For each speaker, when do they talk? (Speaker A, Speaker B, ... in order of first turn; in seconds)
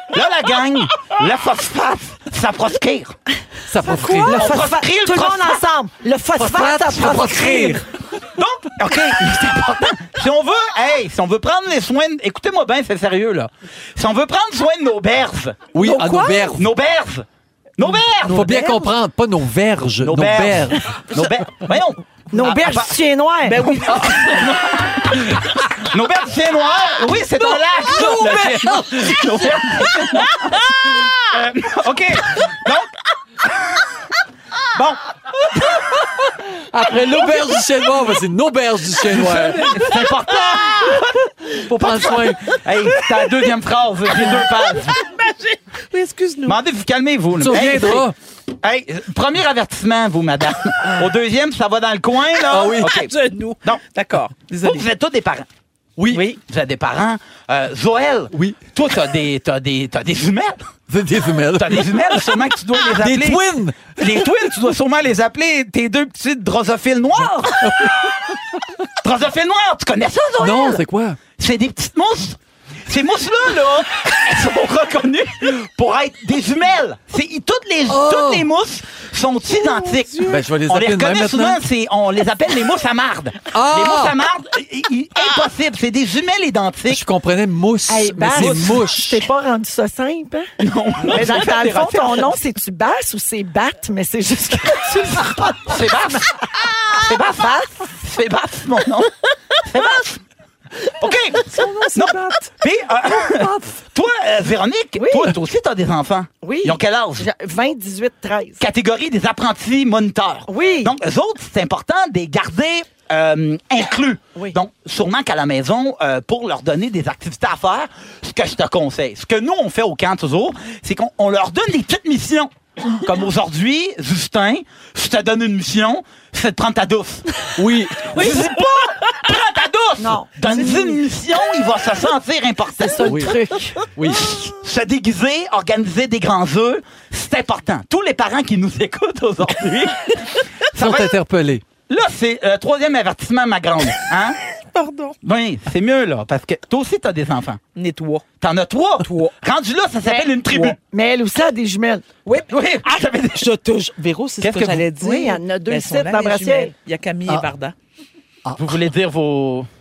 Speaker A: 0.1-3.1, 4.2-5.6, 8.4-17.2, 17.8-18.9, 20.0-23.0, 23.5-32.9, 34.7-35.8, 39.1-45.0, 46.5-48.1, 48.6-53.8, 54.6-55.5, 56.4-60.7, 61.5-68.1, 69.0-70.8, 71.4-87.0, 88.3-88.9, 90.6-92.3, 95.0-96.3, 96.9-100.2, 101.0-107.3, 108.6-127.5, 128.1-133.4, 134.1-140.2, 140.8-141.2, 141.9-144.4, 145.2-147.6, 148.4-150.8, 152.4-153.5, 154.4-154.9, 158.6-159.7
Speaker B: 3.7-4.6, 6.4-7.8, 15.7-16.7, 18.1-21.2, 27.4-29.6, 36.7-40.0, 41.7-42.6, 47.4-48.1, 52.5-52.9, 56.0-56.2, 58.3-58.6, 60.9-64.0, 67.6-67.9, 70.4-71.2, 77.9-78.5, 80.2-81.6, 83.5-84.2, 86.9-89.2, 127.6-128.5, 133.1-133.4, 133.9-134.4, 140.8-141.6, 158.4-158.8
Speaker C: 3.9-7.8, 15.8-16.5, 22.3-23.8, 87.9-90.5, 91.0-97.8, 105.0-105.3, 106.4-108.6, 110.5-110.9, 130.0-130.9, 132.8-133.8, 150.8-152.1, 155.0-156.7
Speaker D: 23.5-24.3, 44.9-46.6, 52.8-54.9, 56.1-56.4, 144.7-145.2, 147.8-148.2, 150.5-150.7, 153.3-157.7